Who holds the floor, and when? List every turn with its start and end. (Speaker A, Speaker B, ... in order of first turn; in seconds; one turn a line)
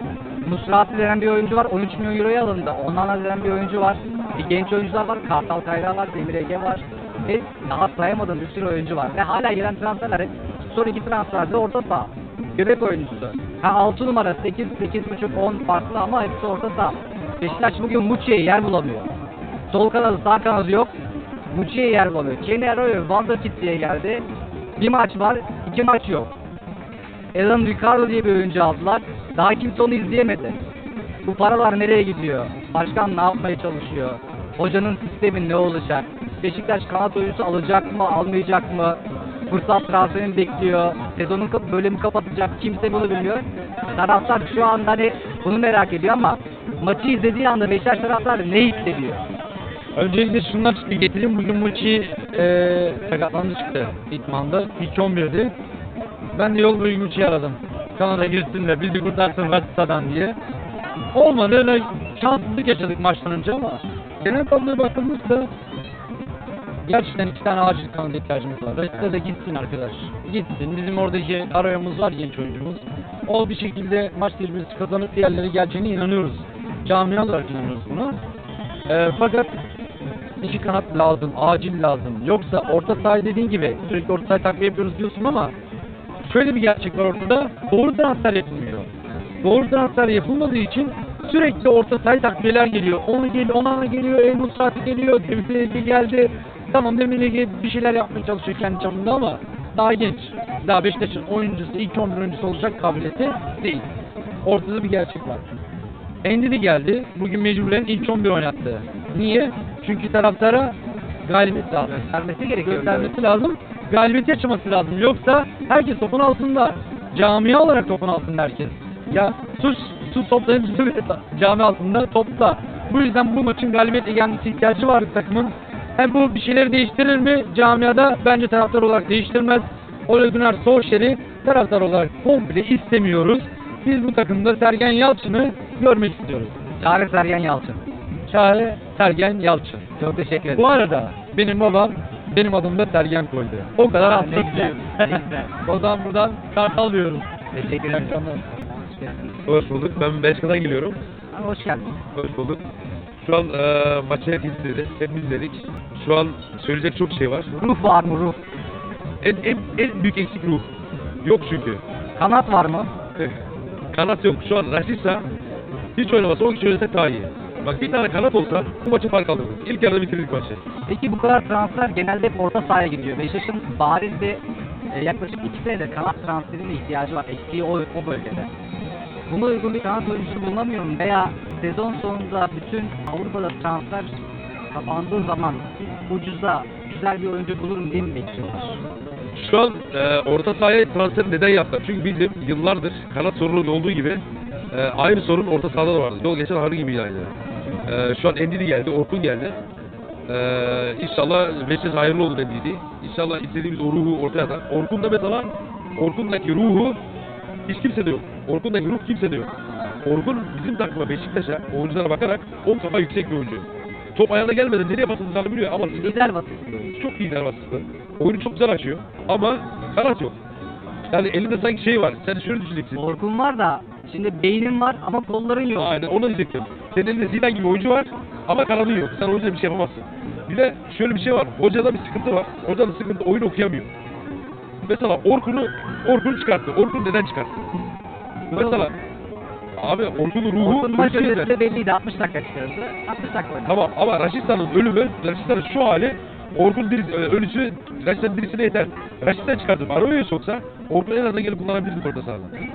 Speaker A: 0.5-19.1
Speaker A: 19.7-20.9
Speaker A: 21.5-24.2
Speaker A: 24.8-26.3
Speaker A: 27.3-30.6
Speaker A: 31.2-49.2
Speaker B: 50.0-55.5
Speaker B: 56.3-60.4
Speaker B: 61.1-65.5
Speaker B: 66.8-78.2
Speaker B: 78.9-79.6
Speaker B: 80.4-85.5
Speaker B: 86.2-88.9
Speaker B: 89.4-103.9
Speaker B: 104.4-105.4
Speaker B: 106.2-110.8
Speaker B: 111.3-112.0
Speaker A: 111.9-113.1
Speaker B: 112.6-136.5
Speaker A: 136.8-137.8
Speaker B: 138.3-139.8
Speaker A: 140.0-140.7
Speaker B: 140.5-147.3
Speaker A: 143.9-145.5
Speaker A: 147.5-149.3
Speaker B: 147.8-148.4
Speaker C: 149.5-151.0
Speaker A: 151.3-151.9
Speaker C: 152.2-152.6
Speaker C: 153.2-157.5
Speaker A: 157.5-158.4
Speaker C: 159.2-160.7
Speaker C: 161.2-161.8
Speaker A: 162.2-162.9
Speaker C: 163.9-165.2
Speaker C: 166.0-170.6
Speaker A: 170.9-178.5
Speaker A: 179.3-188.8
Speaker C: 189.4-197.3
Speaker C: 197.9-199.6
Speaker C: 200.3-207.0
Speaker C: 207.7-209.5
Speaker C: 210.1-216.2
Speaker A: 215.9-217.0
Speaker C: 217.0-220.3
Speaker C: 221.1-223.0
Speaker A: 222.9-226.0
Speaker C: 225.8-233.9
Speaker C: 234.8-237.5
Speaker C: 238.5-238.9
Speaker C: 239.8-241.5
Speaker A: 240.6-243.7
Speaker C: 243.7-252.5